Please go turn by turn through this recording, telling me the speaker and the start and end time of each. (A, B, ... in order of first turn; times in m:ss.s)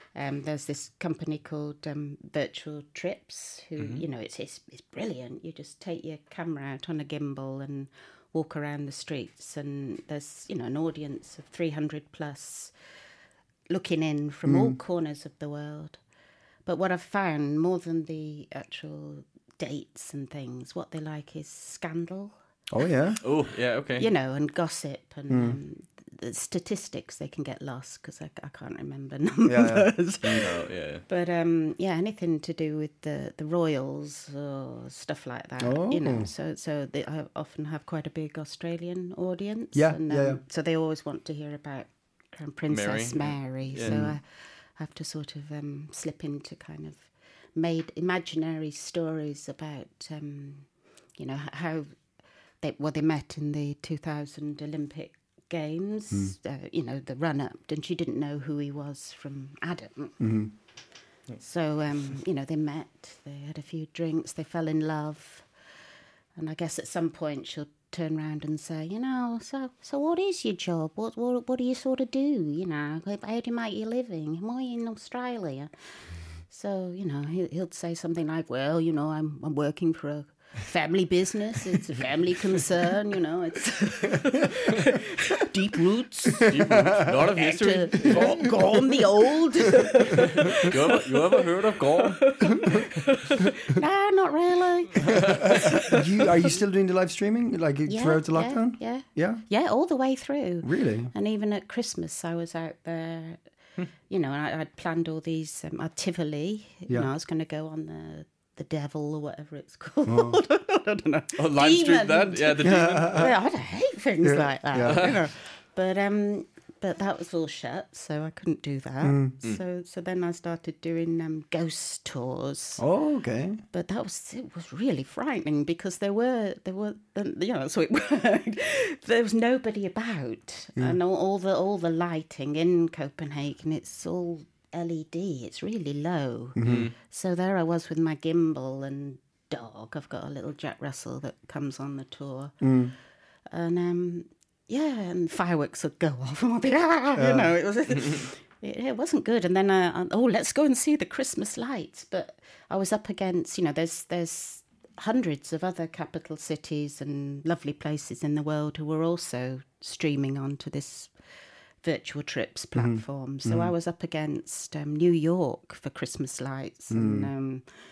0:00.1-0:12.7 A
0:03.8-0:04.0 B
0:13.7-0:16.0 A
0:14.4-0:14.8 C
0:16.6-0:22.3 A
0:22.7-0:23.2 C
0:23.2-0:24.1 B
0:24.0-0:51.9 A
0:25.3-0:25.6 C
0:29.4-0:30.4 C
0:30.2-0:31.0 B
0:35.6-0:36.3 C
0:39.7-0:40.4 C
0:42.7-0:44.0 B
0:43.8-0:44.2 C
0:52.6-1:00.2 A
1:00.2-1:00.5 C
1:01.4-1:05.4 A
1:06.3-1:15.7 A
1:16.5-1:26.6 A
1:26.5-1:28.8 B
1:26.5-1:27.1 C
1:27.1-1:35.8 A
1:30.2-1:32.7 B
1:35.0-1:36.0 B
1:35.2-1:39.4 C
1:37.9-1:43.4 A
1:40.6-1:41.1 C
1:44.1-2:02.8 A
1:50.0-1:50.4 C
1:51.4-1:53.3 B
1:52.6-1:53.3 C
1:54.2-1:55.0 C
1:54.8-1:55.1 B
1:59.0-1:59.3 C
2:02.8-2:03.6 C
2:03.7-2:22.6 A
2:16.6-2:16.9 C
2:16.6-2:16.9 B
2:22.6-2:22.9 C
2:23.5-2:41.1 A
2:27.2-2:27.5 C
2:41.8-2:47.6 A
2:42.8-2:43.7 C
2:46.9-2:47.3 C